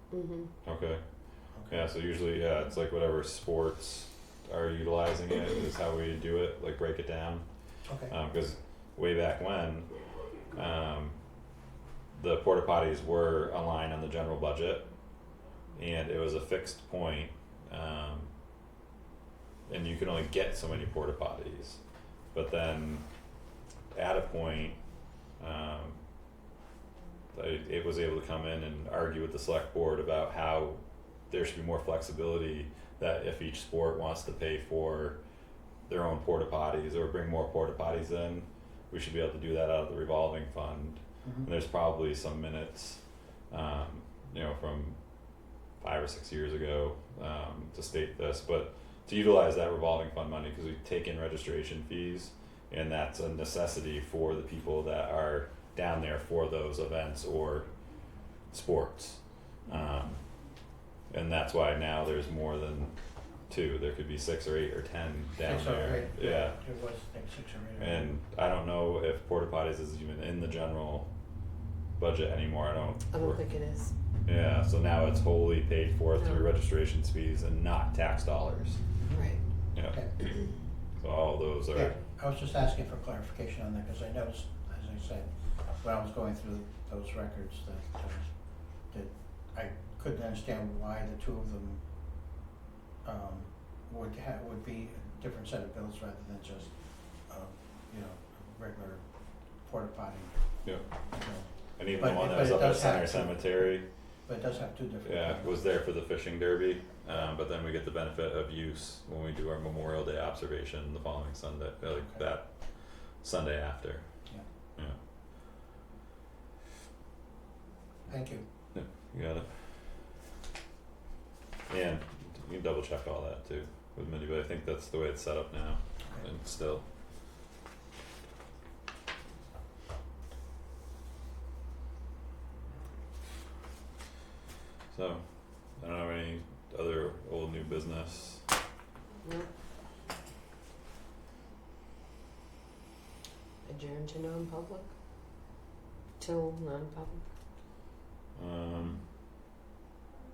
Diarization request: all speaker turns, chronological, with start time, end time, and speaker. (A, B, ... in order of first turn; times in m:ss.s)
0:00.1-0:00.5 A
0:00.6-0:07.4 B
0:01.5-0:01.9 C
0:07.8-0:08.1 C
0:08.1-0:09.9 B
0:10.5-0:11.2 B
0:12.1-0:14.9 B
0:15.7-0:18.3 B
0:19.7-0:21.8 B
0:22.3-0:23.0 B
0:23.9-0:24.8 B
0:25.4-0:26.0 B
0:27.3-0:35.2 B
0:35.8-0:45.0 B
0:45.8-0:57.7 B
0:58.5-1:00.2 B
1:01.1-1:02.9 B
1:03.5-1:06.6 B
1:05.4-1:08.1 C
1:07.8-1:11.1 B
1:12.0-1:13.4 B
1:13.1-1:13.9 A
1:14.2-1:18.8 B
1:16.2-1:16.4 A
1:19.1-1:19.4 A
1:19.7-1:20.0 B
1:21.0-1:22.0 B
1:21.7-1:31.8 C
1:33.0-1:43.6 C
1:41.7-1:43.9 B
1:44.2-1:45.6 C
1:45.0-1:54.1 B
1:58.1-1:58.4 C
1:58.7-1:59.6 B
2:01.7-2:06.8 B
2:14.9-2:18.4 B
2:19.2-2:19.5 A
2:23.6-2:24.9 A
2:26.2-2:27.2 A
2:28.4-2:29.0 B